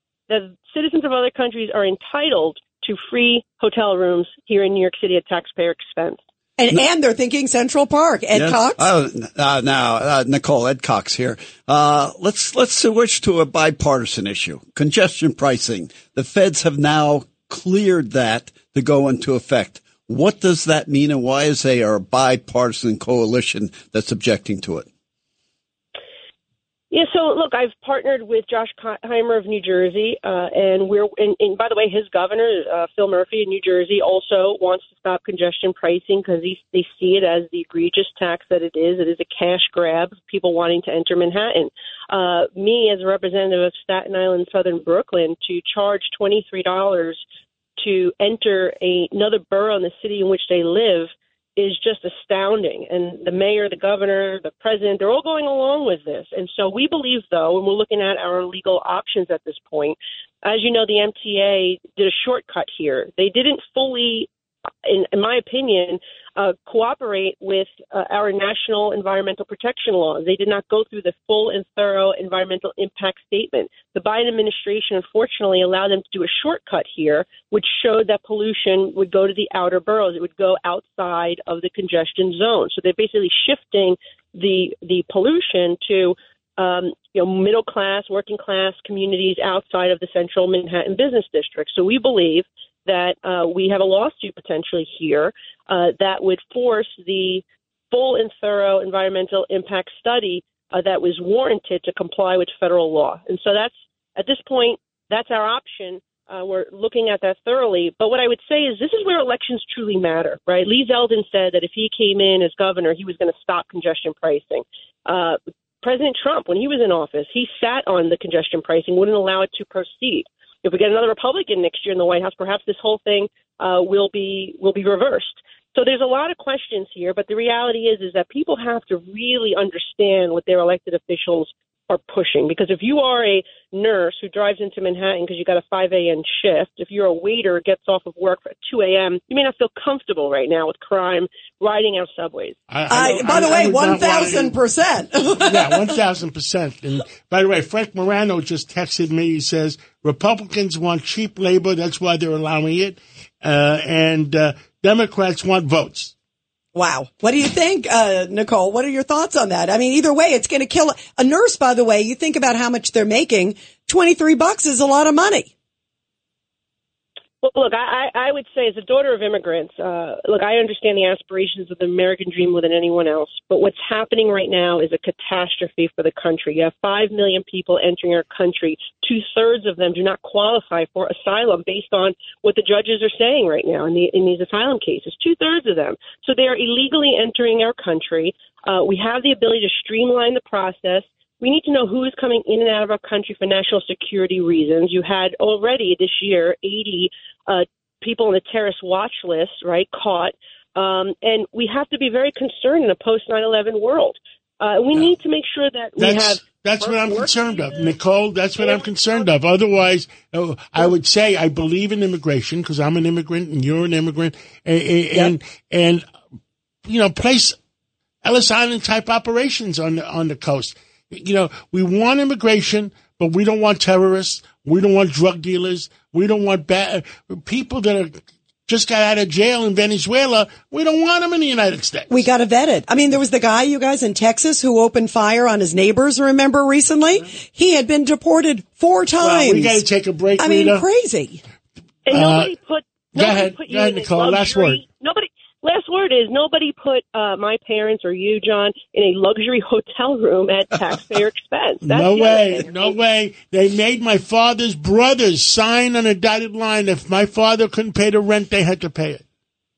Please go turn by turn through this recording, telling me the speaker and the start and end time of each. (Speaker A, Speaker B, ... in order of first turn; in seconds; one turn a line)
Speaker A: 0.3-6.2
Speaker B: 6.6-8.8
Speaker C: 8.3-24.9
Speaker A: 26.9-47.2
Speaker A: 47.8-64.3
Speaker A: 64.8-143.4
Speaker D: 142.7-144.6
Speaker B: 142.9-145.8
Speaker D: 145.4-156.1
Speaker B: 156.7-165.5
Speaker A: 167.4-208.0
Speaker D: 206.0-216.0
Speaker A: 208.6-209.3
Speaker D: 216.8-217.5
Speaker D: 218.2-232.2
Speaker B: 232.1-239.8
Speaker D: 239.2-240.8
Speaker B: 240.4-241.4
Speaker A: 242.1-252.9
Speaker D: 242.1-242.5
Speaker D: 243.1-244.8
Speaker D: 251.8-259.2